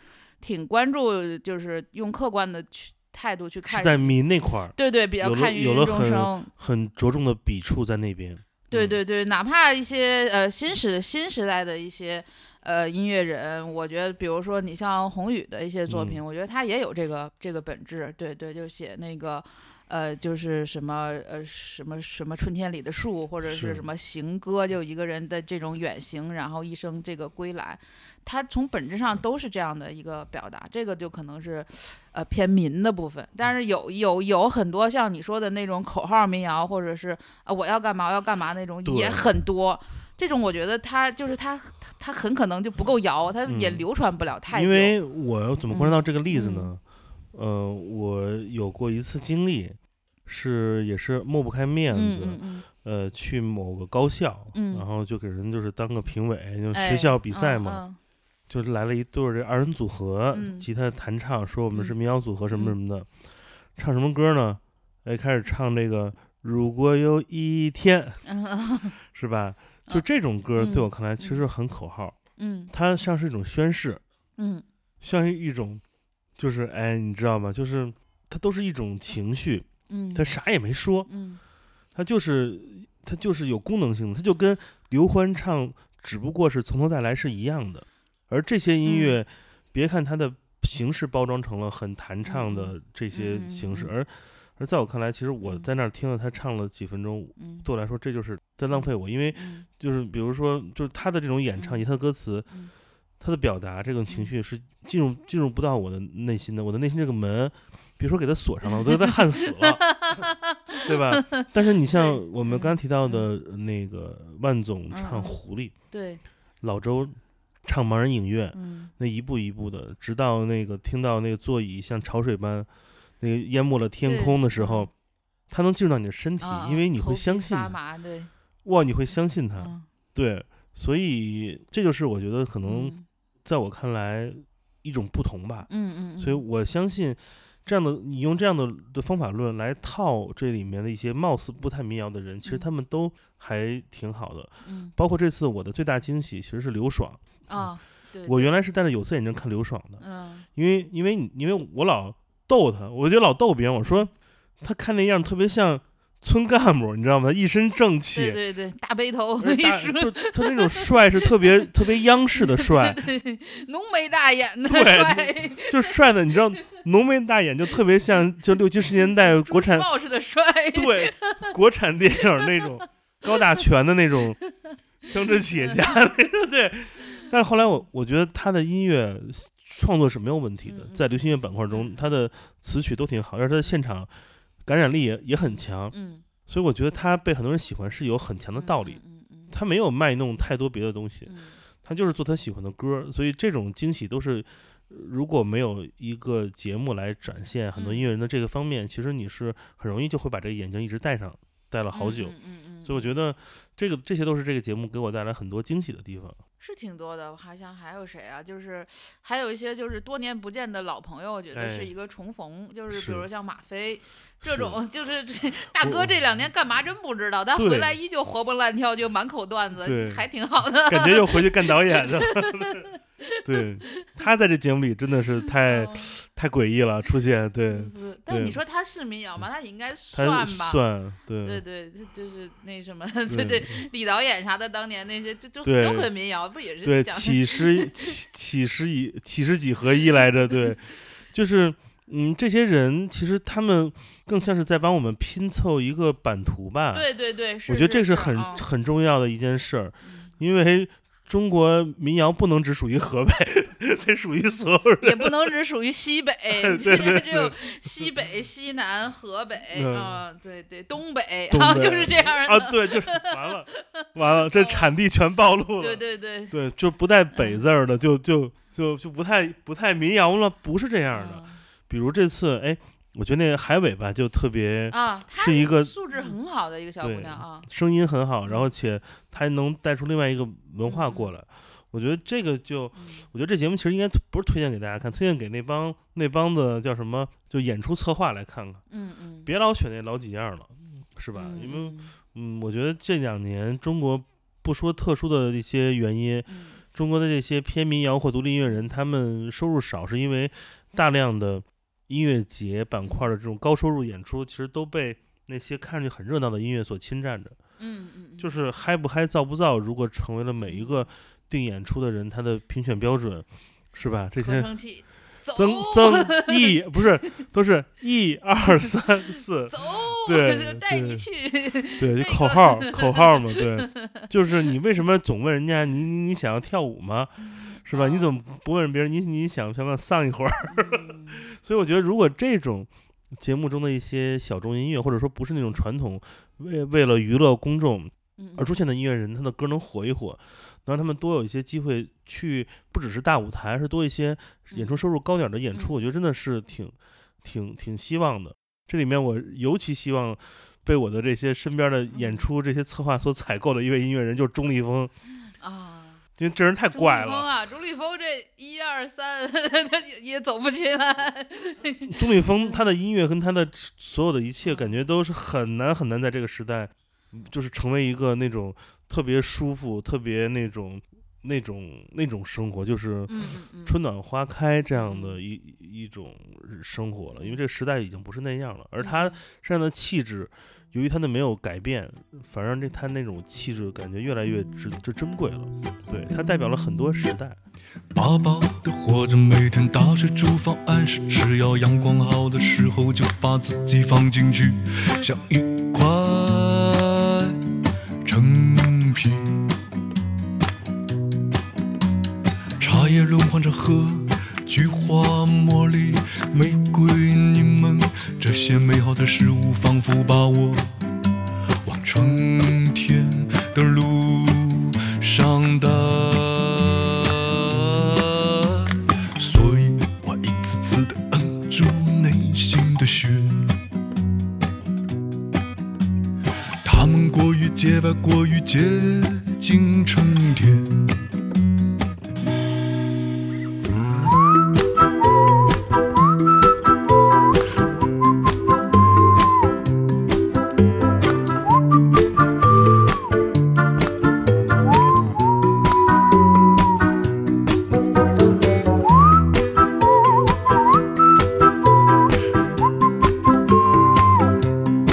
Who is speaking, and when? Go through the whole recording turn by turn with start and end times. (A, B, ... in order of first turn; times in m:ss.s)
0:00.4-0:04.2 A
0:03.7-0:09.0 B
0:04.8-0:06.5 A
0:08.7-0:45.0 A
0:15.9-0:16.2 B
0:23.5-0:23.8 B
0:38.8-0:39.3 B
0:43.5-0:43.8 B
0:44.5-0:46.8 B
0:45.7-0:46.7 A
0:47.3-0:57.8 B
0:51.9-0:52.7 A
0:54.5-0:54.8 A
0:56.7-0:58.0 A
0:58.5-1:03.1 B
1:00.3-1:00.7 A
1:03.8-1:08.2 B
1:08.3-1:08.9 A
1:09.1-1:12.2 B
1:10.6-1:11.4 A
1:12.4-1:12.7 A
1:12.7-1:14.0 B
1:14.4-1:14.6 A
1:15.0-1:15.8 B
1:16.4-1:21.1 B
1:19.9-1:20.3 A
1:21.1-1:21.4 A
1:22.0-1:42.5 B
1:28.8-1:29.2 A
1:32.2-1:33.9 A
1:35.4-1:35.7 A
1:37.4-1:37.7 A
1:38.7-1:39.7 A
1:41.6-1:41.8 A
1:43.2-1:50.2 B
1:44.1-1:44.3 A
1:48.6-1:53.3 A
1:50.8-1:55.8 B
1:54.9-1:55.4 A
1:55.9-1:56.2 A
1:56.6-2:02.7 B
1:58.5-1:58.9 A
2:03.2-2:04.9 B
2:04.0-2:04.9 A
2:05.5-2:07.7 B
2:06.4-2:08.3 A
2:08.6-2:12.9 B
2:09.6-2:09.9 A
2:12.6-2:13.0 A
2:13.4-2:27.7 B
2:15.7-2:16.4 A
2:24.6-2:24.9 A
2:27.5-2:28.5 A
2:28.3-2:30.0 B
2:30.0-2:30.5 A
2:30.6-2:34.1 B
2:34.6-2:38.4 B
2:38.1-2:41.5 A
2:39.4-2:43.0 B
2:42.4-2:46.0 A
2:44.6-2:49.9 B
2:49.0-2:51.5 A
2:50.7-2:54.4 B
2:52.4-2:52.9 A
2:54.4-2:54.8 A
2:55.0-3:04.1 B
2:55.4-2:56.0 A
3:00.7-3:01.1 A
3:01.7-3:02.0 A
3:04.7-3:26.4 B
3:05.4-3:06.2 A
3:08.6-3:09.5 A
3:11.3-3:11.6 A
3:17.8-3:18.1 A
3:21.9-3:23.2 A
3:26.6-3:44.1 A
3:31.5-3:31.9 B
3:32.9-3:33.2 B
3:34.4-3:34.8 B
3:35.8-3:36.1 B
3:37.6-3:38.0 B
3:39.8-3:40.2 B
3:40.8-3:42.9 B
3:43.4-3:48.6 B
3:45.6-3:46.1 A
3:47.7-3:50.8 A
3:50.1-3:51.6 B
3:51.4-3:58.1 A
3:53.3-3:53.8 B
3:55.6-3:56.1 B
3:56.8-4:07.1 B
4:06.9-4:08.7 A
4:07.7-4:15.5 B
4:10.0-4:10.3 A
4:15.0-4:25.0 A
4:16.6-4:17.9 B
4:19.7-4:20.2 B
4:21.5-4:36.4 B
4:25.8-4:26.6 A
4:27.3-4:27.6 A
4:31.1-4:31.6 A
4:34.9-4:37.7 A
4:37.0-4:48.8 B
4:38.4-4:38.7 A
4:40.9-4:41.3 A
4:43.0-4:43.3 A
4:48.9-4:49.5 A
4:49.5-5:07.6 B
4:51.3-4:52.2 A
4:56.5-4:56.8 A
4:58.6-4:58.9 A
5:03.0-5:03.3 A
5:07.8-5:08.5 A
5:08.4-5:14.7 B
5:10.6-5:11.1 A
5:14.4-5:16.8 A
5:15.5-5:21.3 B
5:19.7-5:24.3 A
5:22.0-5:55.1 B
5:27.5-5:28.4 A
5:30.7-5:31.4 A
5:38.4-5:38.8 A
5:44.7-5:45.0 A
5:52.1-5:52.5 A
5:55.6-5:56.2 A
5:56.4-5:57.5 B
5:56.9-6:02.8 A
6:02.1-6:27.6 B
6:04.6-6:05.1 A
6:13.3-6:14.0 A
6:14.9-6:15.4 A
6:17.4-6:17.6 A
6:19.0-6:19.4 A
6:28.2-6:37.6 C
6:38.2-6:39.7 C
6:42.8-6:50.9 C
6:51.8-6:58.2 C
6:59.4-7:03.8 C
7:06.8-7:11.0 C